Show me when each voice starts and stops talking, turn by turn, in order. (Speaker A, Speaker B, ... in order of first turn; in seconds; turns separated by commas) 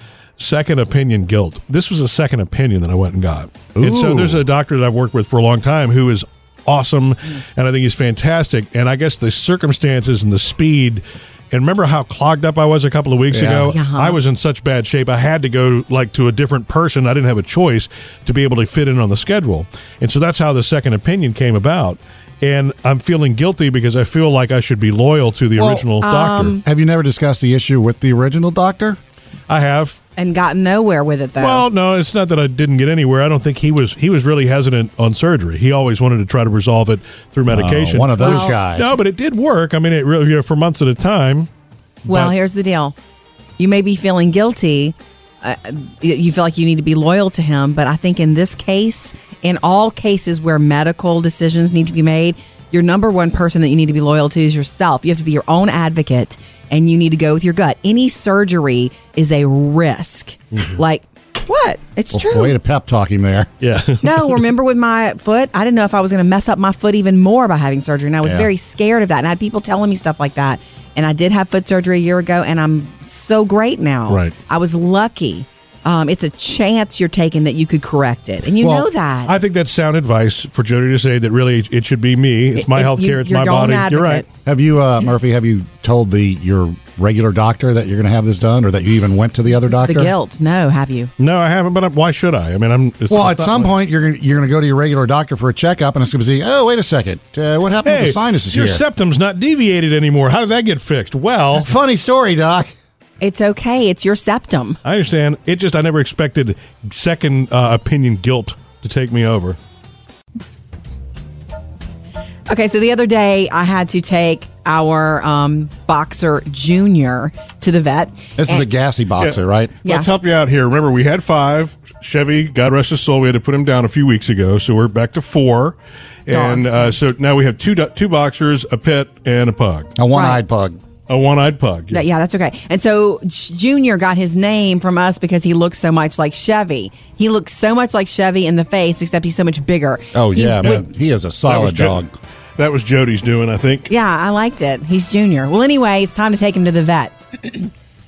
Speaker A: 0.4-26.6, Speaker B: 3.8-4.4, Speaker B: 13.3-13.7, Speaker C: 13.7-14.2, Speaker B: 25.6-25.9, Speaker C: 26.0-26.6, Speaker B: 26.6-29.0, Speaker A: 29.5-30.0, Speaker C: 30.2-31.6, Speaker A: 31.4-41.5, Speaker B: 37.5-39.0, Speaker C: 38.2-38.6, Speaker A: 42.0-42.3, Speaker C: 42.1-42.9, Speaker C: 43.6-62.6, Speaker B: 62.1-63.5, Speaker A: 63.6-64.4, Speaker C: 64.0-79.3, Speaker B: 68.2-68.5, Speaker B: 78.6-78.9, Speaker A: 79.3-84.2, Speaker C: 82.5-84.2, Speaker B: 84.5-90.1, Speaker C: 89.6-91.1, Speaker A: 91.2-93.7, Speaker B: 93.1-98.8, Speaker A: 97.8-101.7, Speaker B: 101.5-102.7, Speaker C: 103.2-104.8, Speaker A: 104.8-109.6, Speaker C: 112.5-118.6, Speaker B: 118.4-119.8, Speaker A: 119.2-125.8, Speaker A: 126.3-129.9, Speaker C: 126.3-127.0, Speaker B: 130.0-130.8, Speaker C: 130.1-130.4, Speaker A: 131.1-132.0, Speaker C: 131.9-140.8, Speaker B: 140.1-142.1, Speaker A: 141.4-142.0, Speaker A: 142.6-143.9, Speaker C: 143.9-147.7